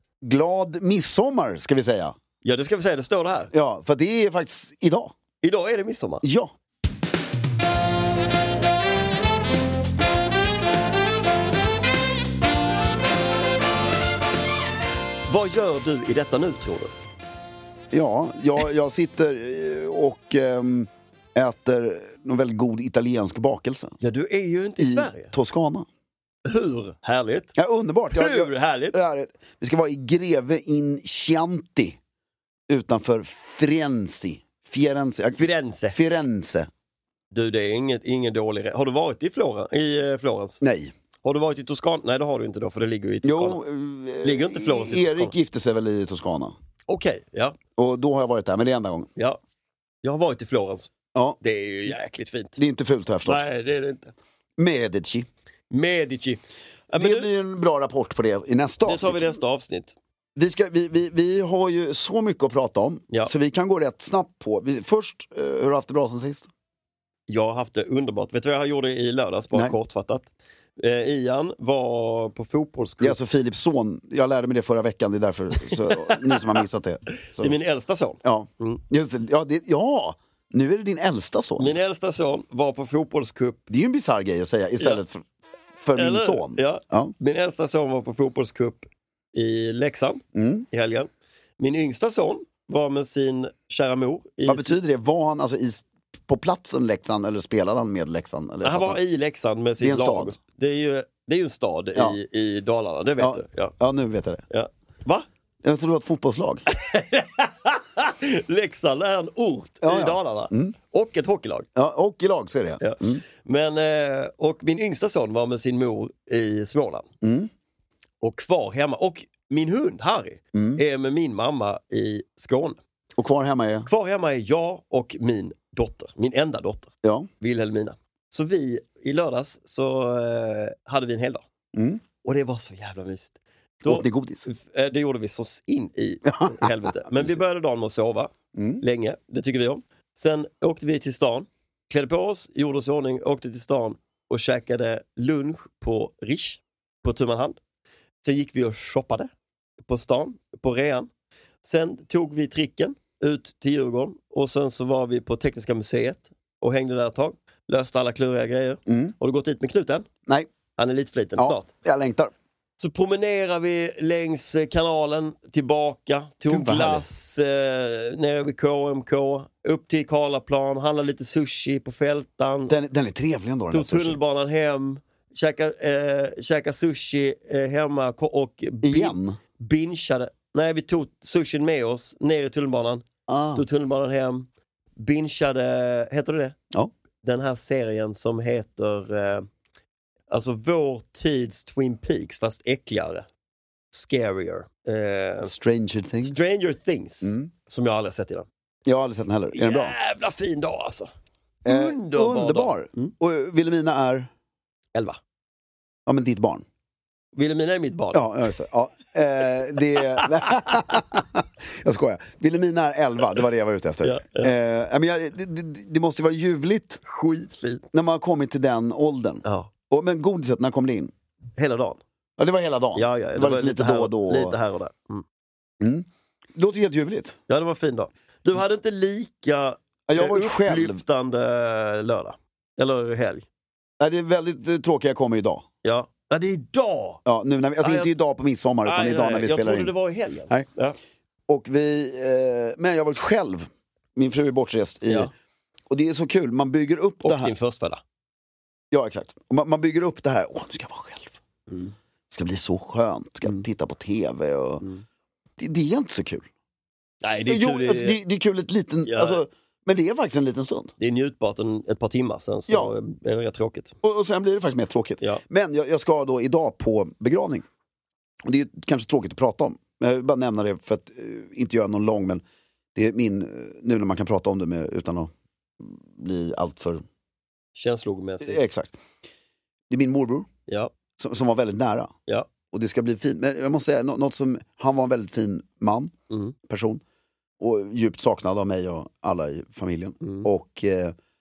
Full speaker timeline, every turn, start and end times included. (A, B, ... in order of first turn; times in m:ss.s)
0:00.2-0:02.2 A
0:02.4-0:03.5 B
0:03.5-0:05.2 A
0:05.4-0:06.2 B
0:06.2-0:06.5 A
0:15.2-0:16.9 B
0:17.9-0:23.9 A
0:24.0-0:25.3 B
0:24.8-0:25.9 A
0:26.4-0:27.5 B
0:27.6-0:32.0 A
0:28.1-0:29.0 B
0:32.7-0:36.7 A
0:35.4-0:36.0 B
0:37.3-0:40.6 B
0:40.6-0:40.9 A
0:41.2-0:43.6 B
0:43.2-0:46.6 A
0:44.2-0:45.3 B
0:46.9-0:47.6 B
0:47.8-0:49.1 A
0:50.0-0:50.9 B
0:51.1-0:51.4 A
0:51.4-0:52.6 B
0:52.6-0:53.5 A
0:53.2-0:54.1 B
0:54.6-0:55.3 A
0:55.7-0:57.3 B
0:56.9-0:59.4 A
0:58.8-1:00.0 B
1:00.4-1:06.5 A
1:07.3-1:13.2 B
1:13.0-1:17.6 A
1:15.7-1:16.5 B
1:17.4-1:18.8 B
1:18.2-1:21.8 A
1:21.6-1:23.6 B
1:23.7-1:25.2 A
1:25.8-1:27.1 A
1:25.9-1:34.8 B
1:30.3-1:30.7 A
1:34.4-1:39.0 A
1:38.6-1:43.7 B
1:39.8-1:40.4 A
1:43.2-1:44.4 A
1:44.5-1:45.2 B
1:45.6-1:46.6 A
1:46.7-1:51.7 B
1:49.8-1:50.8 A
1:51.8-1:53.2 A
1:52.8-1:57.1 B
1:57.2-1:57.5 A
1:58.2-2:02.8 B
2:00.5-2:00.8 A
2:03.2-2:03.9 A
2:03.9-2:11.4 B
2:07.0-2:07.3 A
2:11.7-2:12.0 A
2:12.2-2:27.6 B
2:13.8-2:14.5 A
2:16.3-2:17.3 A
2:18.6-2:18.8 A
2:28.2-2:29.3 B
2:29.9-2:31.1 B
2:31.6-2:40.1 B
2:38.9-2:39.2 A
2:40.8-2:41.7 B
2:41.4-2:42.3 A
2:42.8-2:52.8 B
2:46.5-2:47.1 A
2:52.7-2:54.2 A
2:53.7-3:03.0 B
2:58.8-2:59.4 A
3:03.3-3:03.7 A
3:03.6-3:06.6 B
3:07.2-3:09.5 B
3:10.3-3:13.3 B
3:13.9-3:15.5 B
3:15.4-3:16.4 A
3:16.2-3:18.5 B
3:17.2-3:17.5 A
3:18.9-3:19.9 A
3:19.5-3:21.1 B
3:21.6-3:24.3 A
3:21.7-3:23.1 B
3:26.1-3:26.6 A
3:27.4-3:28.2 B
3:28.1-3:37.0 A
3:30.2-3:30.5 B
3:34.0-3:34.5 B
3:37.0-3:37.8 B
3:37.9-3:41.1 A
3:39.4-3:39.7 B
3:41.6-3:42.0 B
3:42.4-3:44.6 A
3:43.0-3:45.2 B
3:45.8-3:47.4 A
3:47.5-3:53.4 B
3:50.1-3:51.0 A
3:54.0-3:55.7 A
3:55.8-3:57.2 B
3:57.3-3:59.9 A
3:57.8-3:58.2 B
3:58.8-4:01.0 B
4:01.5-4:05.3 A
4:05.9-4:07.5 A
4:07.2-4:08.0 B
4:08.9-4:11.4 A
4:11.7-4:11.9 B
4:12.3-4:14.8 A
4:15.6-4:16.5 A
4:17.2-4:18.2 B
4:17.2-4:20.9 A
4:19.0-4:19.4 B
4:21.0-4:23.9 B
4:22.7-4:22.9 A
4:24.0-4:27.7 A
4:28.4-4:32.4 A
4:32.9-4:37.0 A
4:37.8-4:38.6 B
4:38.4-4:39.0 A
4:39.9-4:40.5 A
4:40.7-4:40.9 B
4:41.2-4:42.1 A
4:42.7-4:46.1 A
4:46.3-4:46.6 B
4:46.7-4:47.0 A
4:47.6-4:51.2 A
4:50.2-4:50.5 B